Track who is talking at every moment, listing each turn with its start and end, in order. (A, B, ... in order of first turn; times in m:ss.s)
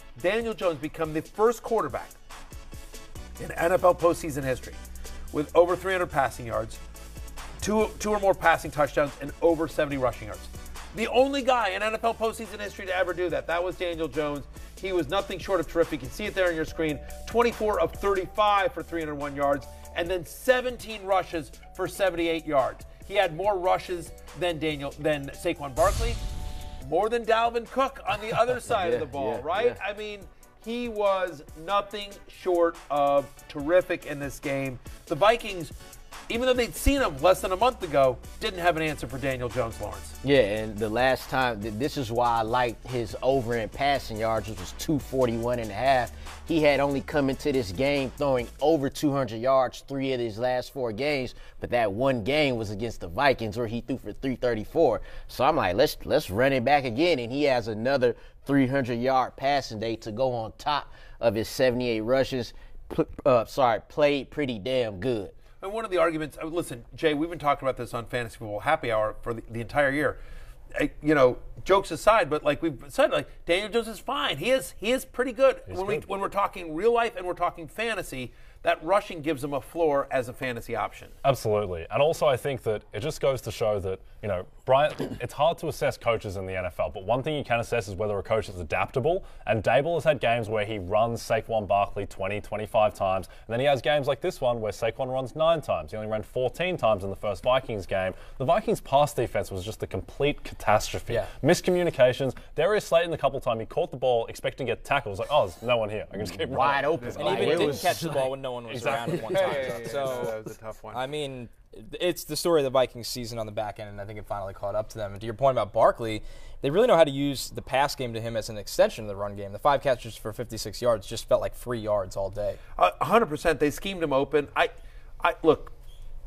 0:00.2-0:02.2 A
0:03.4-0:04.8 A
0:05.3-0:06.8 A
0:07.6-0:26.2 A
0:26.8-0:35.8 A
0:28.6-0:29.8 B
0:36.3-0:40.2 A
0:40.2-1:05.3 B
1:05.6-1:10.2 A
1:10.8-1:21.1 A
1:15.7-1:16.1 C
1:21.2-1:47.8 C
1:46.4-1:48.3 B
1:47.2-1:50.4 D
1:48.7-1:49.8 C
1:48.8-1:51.1 A
1:50.9-2:02.6 D
2:02.8-2:05.7 A